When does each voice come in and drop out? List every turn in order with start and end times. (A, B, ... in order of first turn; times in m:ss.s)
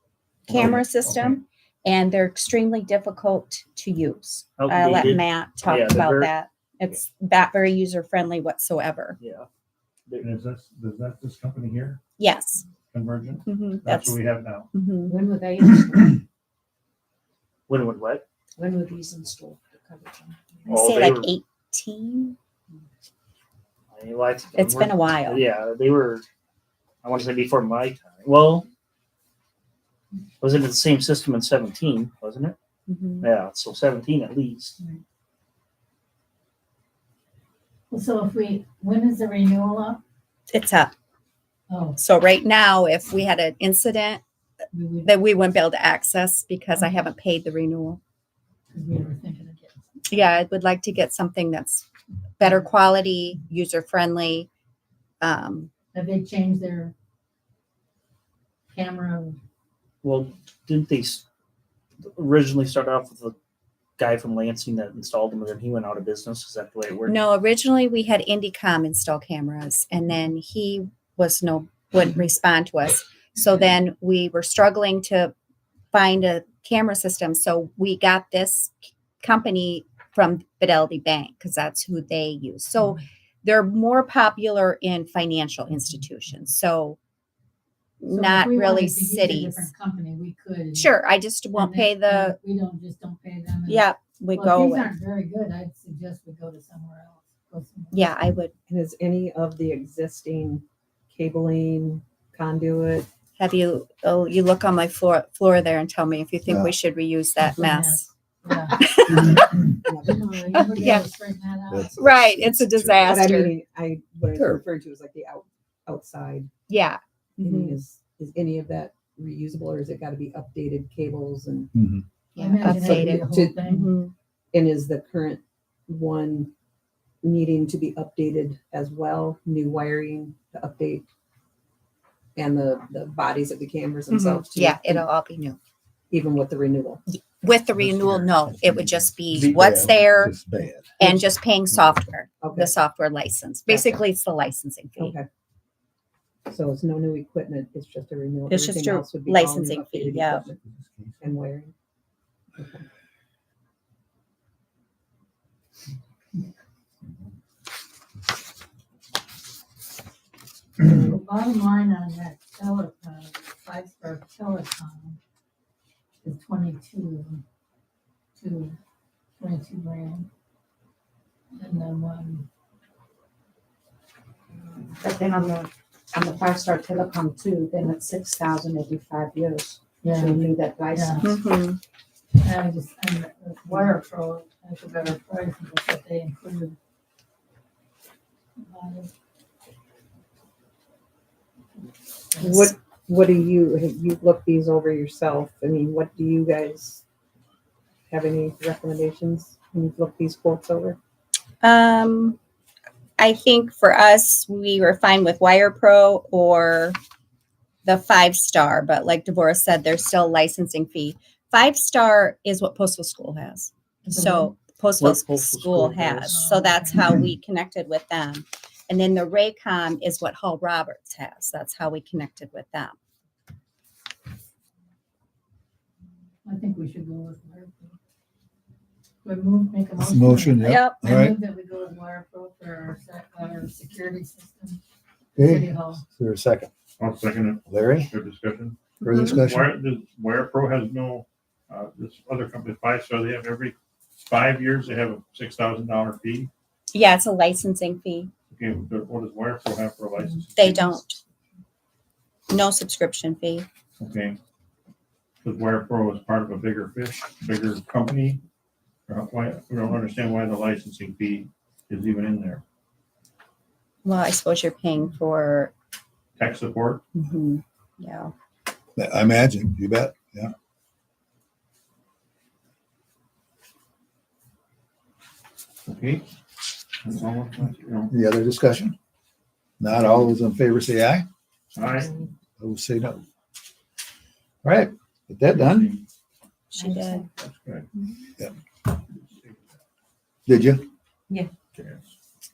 0:00.5-0:01.4 A
0:00.5-0:09.2 B
0:04.6-0:06.3 C
0:09.2-0:09.5 C
0:10.2-0:12.0 A
0:12.2-0:12.6 B
0:12.9-0:14.7 A
0:13.5-0:14.2 B
0:14.7-0:15.2 B
0:15.1-0:16.2 D
0:17.7-0:18.2 C
0:18.6-0:20.1 D
0:20.7-0:21.3 C
0:20.7-0:22.4 B
0:23.9-0:26.2 C
0:24.6-0:25.4 B
0:27.0-0:28.7 C
0:30.4-0:32.6 C
0:32.9-0:33.3 B
0:33.2-0:34.8 C
0:37.9-0:40.0 E
0:40.5-0:40.9 B
0:41.7-0:42.0 E
0:42.0-0:44.2 B
0:44.7-0:45.1 E
0:45.0-0:48.0 B
0:48.7-0:50.1 E
0:50.1-0:51.9 B
0:52.4-0:54.5 B
0:55.2-0:55.7 B
0:55.9-0:56.9 E
0:58.7-0:59.4 E
1:00.0-1:01.2 C
1:02.0-1:03.4 C
1:04.0-1:07.2 C
1:07.1-1:15.3 B
1:15.9-1:27.0 B
1:28.0-1:29.7 B
1:28.1-1:31.0 E
1:30.8-1:32.4 B
1:31.5-1:38.1 E
1:33.7-1:34.9 B
1:37.9-1:38.5 B
1:38.7-1:43.1 D
1:43.4-1:48.1 B
1:46.5-1:46.7 F
1:47.4-1:48.9 E
1:48.7-1:49.4 B
1:49.8-1:51.0 D
1:50.1-1:52.0 E
1:50.5-1:51.1 B
1:51.7-1:53.2 F
1:52.0-1:53.5 B
1:53.1-1:56.5 D
1:54.4-1:54.6 F
1:56.7-1:57.8 B
1:57.4-2:01.7 D
2:01.7-2:02.0 F
2:02.4-2:04.0 E
2:02.4-2:04.1 B
2:02.8-2:03.6 D
2:04.5-2:06.5 D
2:07.2-2:11.0 D
2:12.4-2:15.0 D
2:14.1-2:15.6 B
2:16.1-2:17.0 D
2:17.1-2:20.4 B
2:17.8-2:21.0 F
2:21.0-2:25.2 B
2:22.4-2:22.8 D
2:23.7-2:24.0 D
2:25.0-2:25.3 D
2:26.5-2:30.6 D
2:28.5-2:30.5 B
2:31.2-2:31.7 D
2:32.6-2:32.9 D
2:40.8-2:41.2 D
2:41.0-2:45.2 E
2:46.2-2:47.4 E
2:48.4-2:48.8 E
2:49.4-2:50.3 E
2:51.5-2:52.5 E
2:55.0-3:01.2 G
2:58.6-2:58.9 B
3:00.0-3:01.3 E
3:01.2-3:01.8 B
3:02.4-3:06.8 E
3:08.6-3:09.1 E
3:12.3-3:12.7 E
3:12.4-3:17.0 D
3:18.1-3:21.0 D
3:21.6-3:22.4 B
3:23.2-3:27.0 B
3:27.8-3:43.0 B
3:34.1-3:34.6 E
3:35.0-3:36.4 C
3:36.2-3:37.2 E
3:46.4-3:48.0 E
3:49.2-3:54.8 E
3:50.0-3:51.4 F
3:50.6-3:51.1 B
3:55.4-3:56.0 E
3:55.4-3:56.7 F
3:57.0-4:06.5 A
3:57.7-3:58.1 F
3:59.0-3:59.7 F
3:59.0-3:59.4 B
4:06.9-4:08.3 B
4:08.5-4:11.0 A
4:10.6-4:11.2 B
4:12.5-4:13.7 B
4:14.0-4:14.4 A
4:15.4-4:18.4 A
4:19.1-4:22.6 A
4:24.0-4:25.7 B
4:26.4-4:27.0 A
4:27.2-4:28.3 B
4:29.0-4:30.5 F
4:35.9-4:36.2 A
4:37.0-4:38.1 A
4:38.1-4:39.0 F
4:39.8-4:41.3 F
4:41.7-4:42.1 A
4:42.6-4:43.2 F
4:44.6-4:46.0 F
4:46.7-4:47.3 B
4:46.8-4:47.3 E
4:47.3-4:47.9 A
4:48.9-4:49.6 A
4:50.5-4:50.8 F
4:51.7-4:52.1 A